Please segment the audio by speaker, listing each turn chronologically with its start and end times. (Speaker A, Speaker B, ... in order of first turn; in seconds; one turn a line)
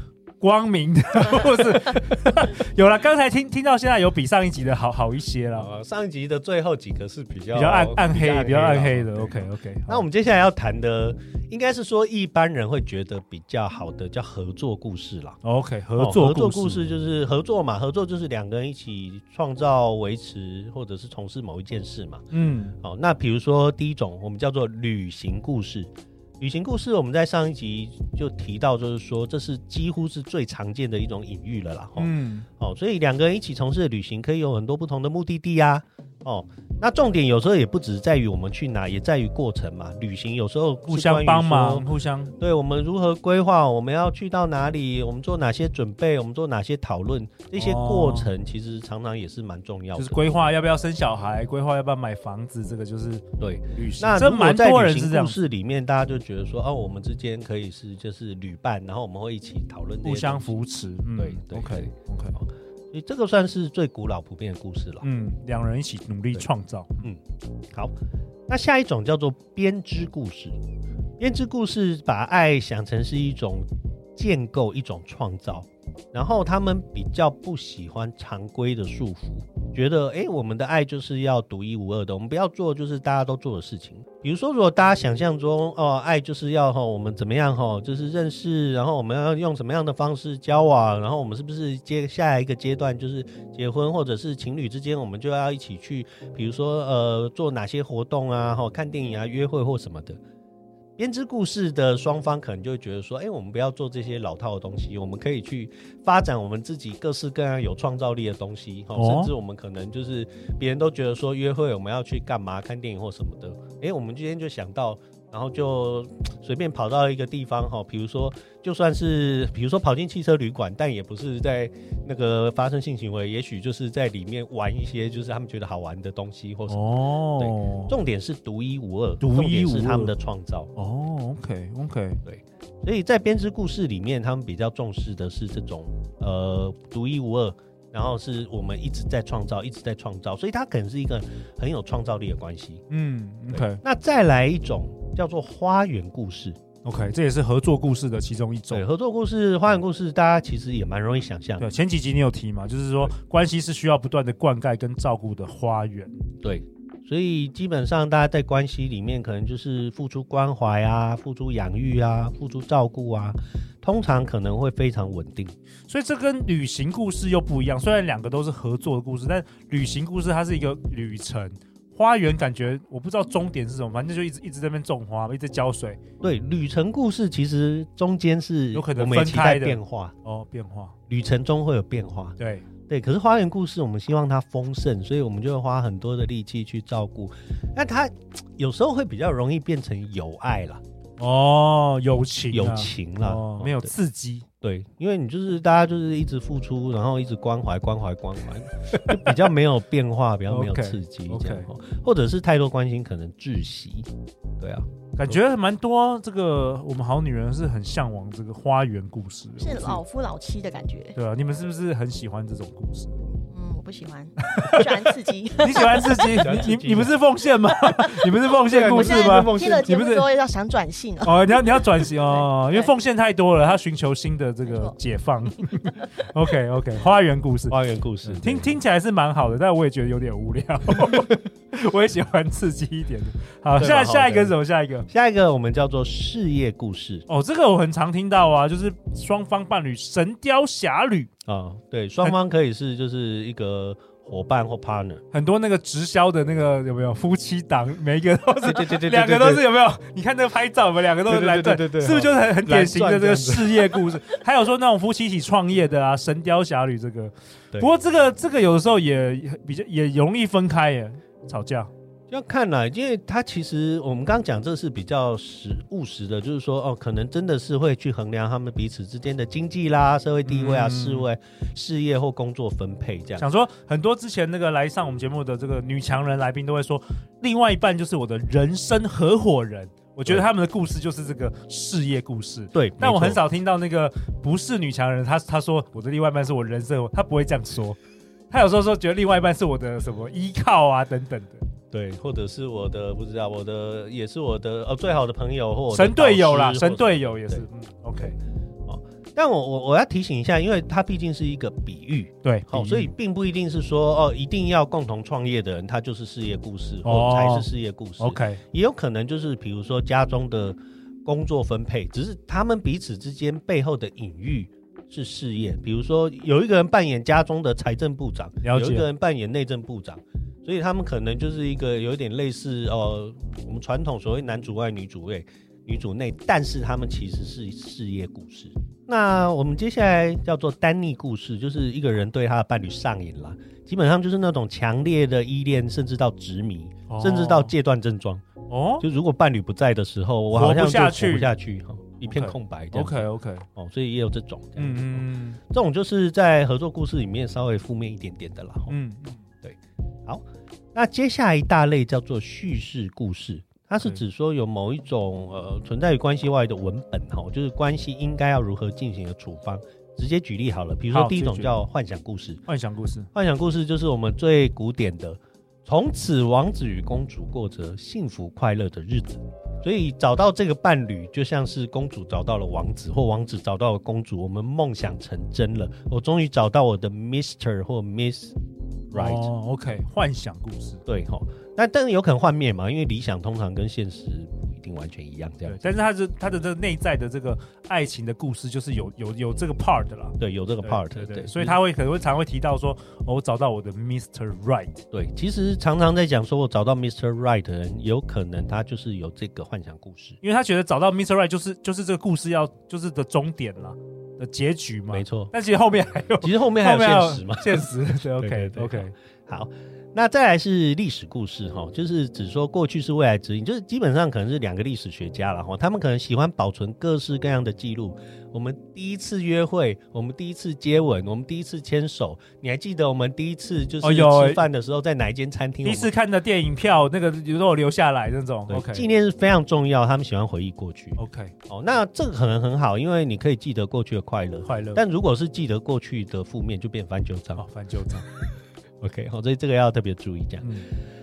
Speaker A: 0.4-5.7
Speaker B: 5.5-15.4
Speaker A: 7.5-10.1
Speaker A: 15.4-16.9
Speaker B: 16.0-22.3
Speaker A: 22.3-22.8
Speaker B: 22.8-41.9
Speaker A: 32.0-32.5
Speaker A: 40.9-42.4
Speaker B: 42.4-50.3
Speaker A: 47.6-48.3
Speaker A: 50.0-55.4
Speaker B: 53.4-60.6
Speaker A: 60.0-62.4
Speaker B: 61.2-65.0
Speaker A: 65.0-67.1
Speaker B: 67.0-68.0
Speaker B: 68.5-70.6
Speaker B: 71.2-100.2
Speaker B: 101.0-126.8
Speaker A: 109.0-109.3
Speaker A: 126.7-127.9
Speaker B: 127.4-130.7
Speaker A: 129.2-130.1
Speaker A: 130.8-132.2
Speaker B: 132.2-142.8
Speaker A: 142.9-143.8
Speaker B: 143.5-146.6
Speaker A: 146.8-148.8
Speaker B: 148.7-151.7
Speaker A: 151.6-156.2
Speaker B: 156.4-165.6
Speaker A: 165.9-176.0
Speaker B: 176.2-180.2
Speaker A: 178.7-180.9
Speaker B: 181.1-190.8
Speaker A: 182.4-182.7
Speaker A: 191.2-194.5
Speaker B: 192.5-193.9
Speaker B: 194.6-205.4
Speaker A: 198.9-199.3
Speaker A: 200.5-201.7
Speaker A: 205.2-210.0
Speaker C: 209.6-211.2
Speaker A: 211.2-213.1
Speaker C: 213.5-216.5
Speaker A: 214.4-220.3
Speaker B: 216.4-217.2
Speaker B: 218.7-219.9
Speaker C: 218.8-222.9
Speaker A: 221.2-235.1
Speaker C: 224.7-224.9
Speaker B: 227.7-228.8
Speaker B: 233.8-234.6
Speaker B: 235.1-237.3
Speaker A: 237.3-241.3
Speaker B: 241.4-245.2
Speaker A: 245.3-261.9
Speaker B: 248.6-249.7
Speaker B: 251.3-254.1
Speaker B: 262.3-273.5
Speaker A: 270.5-271.3
Speaker A: 273.4-288.0
Speaker B: 282.7-283.4
Speaker A: 288.5-291.6
Speaker B: 291.9-297.7
Speaker A: 295.9-298.4
Speaker B: 298.9-338.5
Speaker A: 302.4-303.1
Speaker A: 307.0-307.7
Speaker A: 308.2-308.6
Speaker A: 318.6-319.1
Speaker A: 337.1-337.7
Speaker A: 338.7-339.1
Speaker B: 339.0-348.9
Speaker A: 340.6-341.5
Speaker A: 342.3-343.7
Speaker A: 344.8-345.6
Speaker A: 348.9-349.4
Speaker B: 349.6-362.6
Speaker A: 361.1-361.7
Speaker A: 362.7-363.3
Speaker B: 363.3-378.6
Speaker B: 379.1-379.5
Speaker A: 379.1-381.0
Speaker B: 381.1-385.8
Speaker A: 385.6-395.0
Speaker B: 390.4-391.8
Speaker B: 395.1-400.4
Speaker A: 400.4-409.1
Speaker B: 405.1-405.5
Speaker B: 406.4-426.1
Speaker A: 424.0-424.6
Speaker A: 425.8-429.1
Speaker B: 428.7-437.6
Speaker A: 431.2-431.5
Speaker A: 434.6-435.0
Speaker A: 437.6-438.3
Speaker B: 439.0-440.7
Speaker A: 440.6-440.9